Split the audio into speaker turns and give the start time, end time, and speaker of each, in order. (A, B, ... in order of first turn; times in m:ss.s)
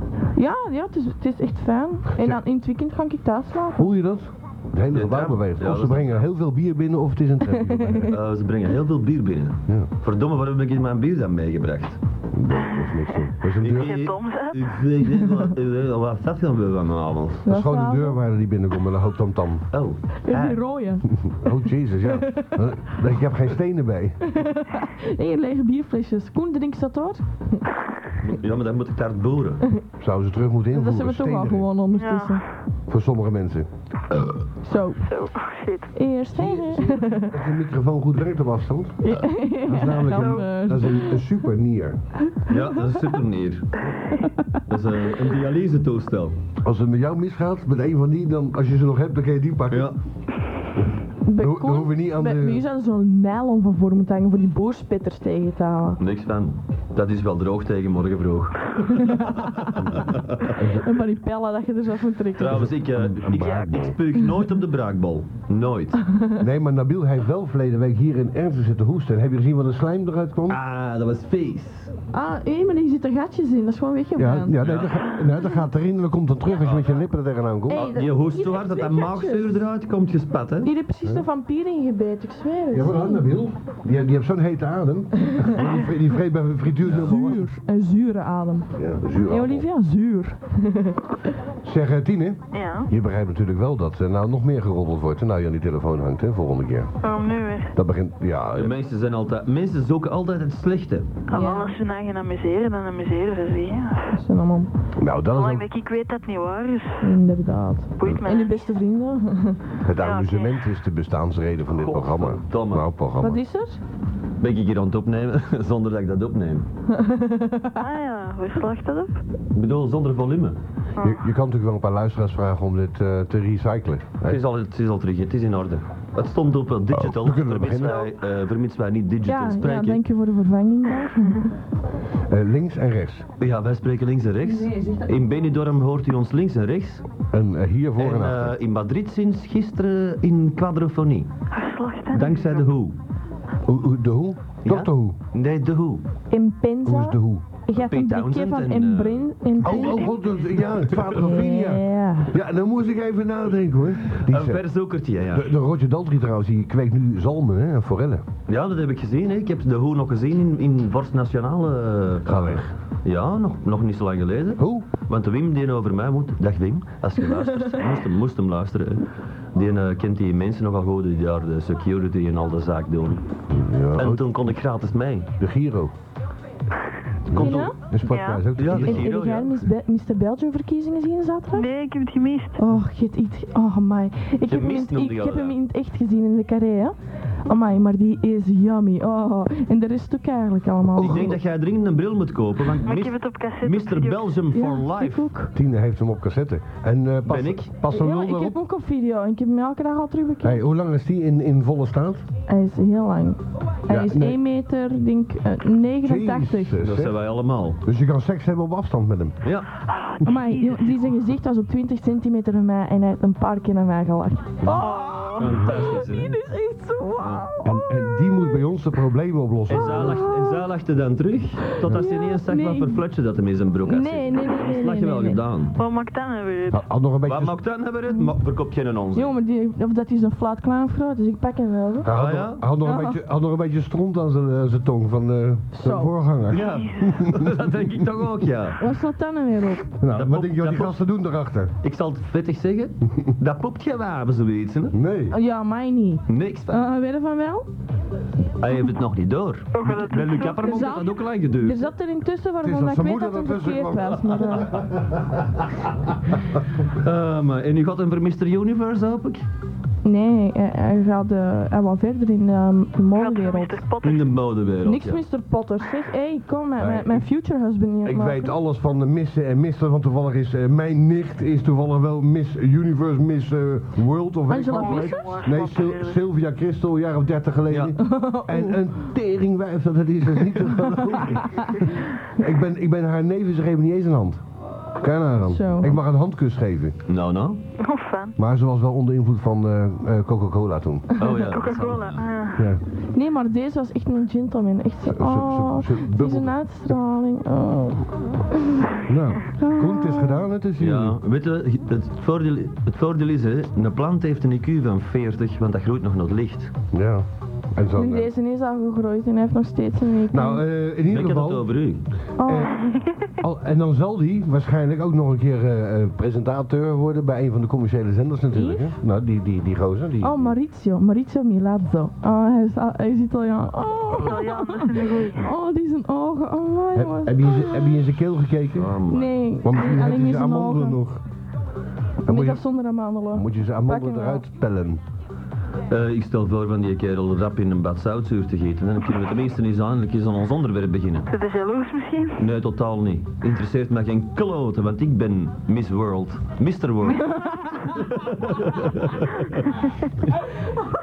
0:00.3-0:03.9 A
0:02.1-0:02.4 B
0:03.8-0:08.2 B
0:04.9-0:06.2 C
0:07.6-0:08.1 A
0:08.1-0:12.0 C
0:12.3-0:14.0 B
0:12.5-0:12.9 D
0:13.6-0:17.4 C
0:13.6-0:14.7 D
0:17.4-0:18.2 A
0:17.4-0:19.6 B
0:19.7-0:20.6 C
0:20.2-0:21.1 A
0:21.1-0:24.2 B
0:22.0-0:22.6 A
0:24.2-0:27.6 A
0:28.2-0:29.6 C
0:30.0-0:31.7 B
0:30.7-0:32.4 A
0:31.9-0:32.4 D
0:32.9-0:33.7 B
0:34.6-0:35.1 A
0:35.1-0:35.9 D
0:35.9-0:37.3 A
0:36.3-0:39.0 B
0:39.0-0:41.3 A
0:39.6-0:42.0 B
0:40.1-0:40.4 D
0:42.3-0:43.0 A
0:42.5-0:43.8 C
0:44.1-0:44.6 A
0:44.7-0:46.4 C
0:46.6-0:49.9 B
0:49.7-0:50.0 C
0:51.2-0:56.0 A
0:51.4-0:52.6 B
0:56.0-1:00.6 C
0:58.9-0:59.9 A
0:59.8-1:00.9 B
1:00.7-1:02.7 A
1:02.4-1:06.0 C
1:02.5-1:04.0 B
1:06.1-1:06.3 A
1:06.4-1:10.6 B
1:10.5-1:11.9 C
1:12.1-1:14.6 A
1:14.2-1:17.9 B
1:14.6-1:15.0 C
1:16.6-1:16.9 C
1:17.7-1:19.5 A
1:17.7-1:20.7 C
1:20.6-1:23.3 A
1:22.7-1:27.5 B
1:26.8-1:27.2 C
1:27.0-1:28.7 A
1:28.8-1:29.7 B
1:29.2-1:31.1 A
1:31.6-1:36.9 B
1:32.5-1:32.9 D
1:37.0-1:37.7 D
1:37.7-1:38.8 B
1:38.5-1:41.2 C
1:41.3-1:44.0 D
1:41.3-1:41.8 A
1:44.1-1:44.7 A
1:45.0-1:45.7 B
1:45.3-1:47.0 D
1:47.0-1:49.6 A
1:48.0-1:48.7 D
1:49.8-1:53.4 B
1:50.0-1:50.6 D
1:51.7-1:52.8 C
1:53.2-1:53.8 A
1:54.4-1:56.7 C
1:56.9-1:57.8 A
1:57.8-1:59.2 D
1:59.5-2:00.6 C
2:01.0-2:04.4 B
2:04.2-2:10.0 C
2:06.9-2:08.1 B
2:09.2-2:11.5 A
2:12.3-2:13.3 B
2:13.4-2:17.0 C
2:14.4-2:15.2 A
2:17.3-2:18.5 B
2:18.0-2:21.3 C
2:21.5-2:22.6 D
2:22.1-2:23.0 C
2:23.6-2:25.2 B
2:24.6-2:26.0 C
2:26.3-2:30.2 A
2:26.8-2:27.5 B
2:27.8-2:30.0 C
2:29.6-2:34.6 B
2:31.1-2:32.3 A
2:34.1-2:35.5 C
2:35.3-2:38.2 B
2:38.5-2:53.2 C
2:42.2-2:42.7 B
2:44.6-2:44.9 B
2:53.5-2:54.3 B
2:54.0-2:55.3 C
2:55.4-2:55.9 B
2:57.3-2:59.1 B
2:57.3-2:57.7 C
2:57.3-2:57.8 A
2:58.1-2:58.4 D
2:58.6-2:59.6 C
2:58.7-3:01.7 A
3:01.5-3:02.6 D
3:02.6-3:11.3 A
3:04.4-3:05.6 C
3:10.9-3:11.4 B
3:11.0-3:15.3 C
3:12.8-3:14.3 D
3:14.5-3:15.5 A
3:15.5-3:18.6 B
3:17.2-3:17.7 C
3:17.9-3:20.6 A
3:20.4-3:22.2 B
3:22.5-3:26.8 A
3:23.9-3:24.4 B
3:26.0-3:27.2 B
3:26.8-3:27.8 C
3:27.8-3:29.4 B
3:29.4-3:29.7 C
3:29.9-3:31.0 D
3:30.2-3:38.6 A
3:34.6-3:34.9 B
3:34.6-3:36.4 C
3:34.7-3:35.4 D
3:35.4-3:35.7 B
3:37.2-3:37.4 C
3:37.6-3:40.2 B
3:39.7-3:45.8 C
3:39.7-3:40.6 A
3:41.7-3:43.0 A
3:43.8-3:45.4 A
3:45.8-3:46.8 D
3:46.7-3:47.6 B
3:47.2-3:49.3 C
3:49.1-3:52.1 A
3:52.0-3:58.0 B
3:52.1-3:52.6 C
3:52.8-3:53.2 A
3:55.7-3:56.1 A
3:56.5-3:58.8 C
3:56.6-3:57.1 D
3:58.8-3:59.9 A
4:00.0-4:01.7 B
4:00.1-4:01.0 C
4:01.8-4:05.0 C
4:04.9-4:05.4 B
4:05.3-4:07.7 A
4:06.3-4:06.8 C
4:08.6-4:11.9 C
4:09.7-4:10.8 D
4:10.6-4:14.7 A
4:12.6-4:15.1 B
4:14.5-4:15.8 C
4:16.8-4:19.4 C
4:20.0-4:23.8 A
4:23.1-4:24.3 D
4:24.0-4:25.2 C
4:24.8-4:28.5 A
4:26.8-4:27.2 B
4:28.0-4:44.4 B
4:34.5-4:35.4 A
4:34.7-4:36.2 D
4:37.7-4:38.0 C
4:38.0-4:38.8 A
4:40.8-4:41.7 A
4:45.0-4:47.0 B
4:45.4-4:45.9 A
4:47.1-4:47.6 C
4:47.8-4:48.3 D
4:48.4-4:51.2 B
4:51.2-4:52.3 C
4:51.3-4:52.7 D
4:52.6-4:52.8 B
4:53.1-4:59.0 A
4:55.1-4:56.9 B
4:59.0-5:01.2 B
4:59.5-5:00.4 A
5:00.8-5:06.7 C
5:06.9-5:08.3 B
5:08.0-5:10.6 A
5:10.3-5:11.7 B
5:11.1-5:12.0 C
5:12.4-5:12.7 A
5:12.4-5:12.8 B
5:13.4-5:20.6 B
5:18.5-5:18.9 A
5:20.2-5:28.0 A
5:24.1-5:25.5 D
5:26.9-5:28.9 B
5:28.7-5:29.3 C
5:29.1-5:31.0 A
5:29.6-5:31.2 B
5:32.2-5:32.6 B
5:32.2-5:34.4 A
5:33.3-5:35.0 B
5:35.9-5:41.3 C
5:41.3-5:42.4 D
5:42.4-5:49.8 C